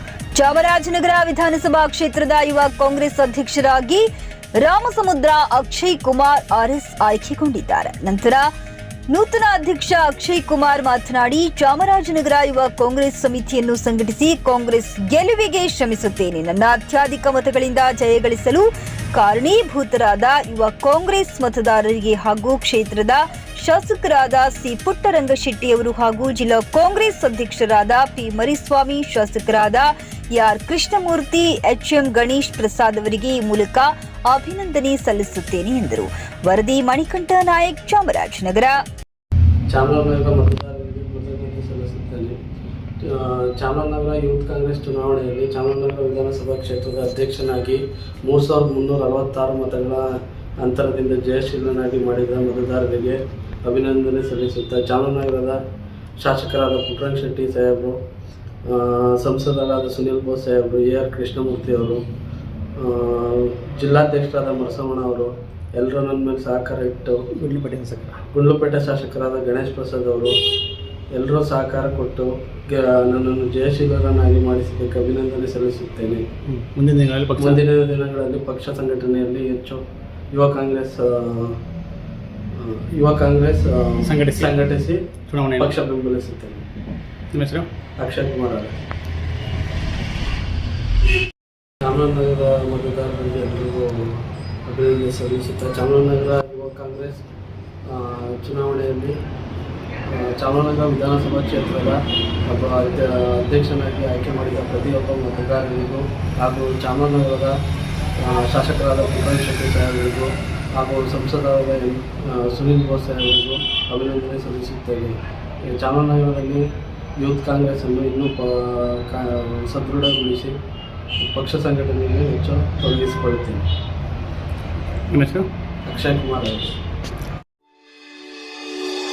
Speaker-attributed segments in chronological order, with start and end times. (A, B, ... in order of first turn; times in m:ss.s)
0:00.4-0:04.1 A
0:04.6-0:08.5 A
0:09.1-0:38.8 A
0:39.7-0:42.4 B
0:43.0-0:50.1 B
0:50.6-0:55.6 B
0:56.2-0:58.0 B
0:58.7-1:02.0 B
1:02.8-1:07.2 B
1:07.4-1:08.2 C
1:08.3-1:10.4 B
1:11.1-1:16.3 B
1:16.5-1:17.6 C
1:17.4-1:21.6 B
1:22.5-1:25.0 B
1:24.0-1:24.6 C
1:25.3-1:25.8 C
1:25.6-1:26.6 B
1:27.3-1:27.7 C
1:28.0-1:28.7 B
1:31.8-1:37.2 B
1:37.9-1:39.2 B
1:40.1-1:47.6 B
1:48.2-1:55.2 B
1:55.7-1:56.6 B
1:57.2-2:00.6 B
2:01.2-2:03.6 B
2:05.1-2:05.5 C
2:05.9-2:06.7 B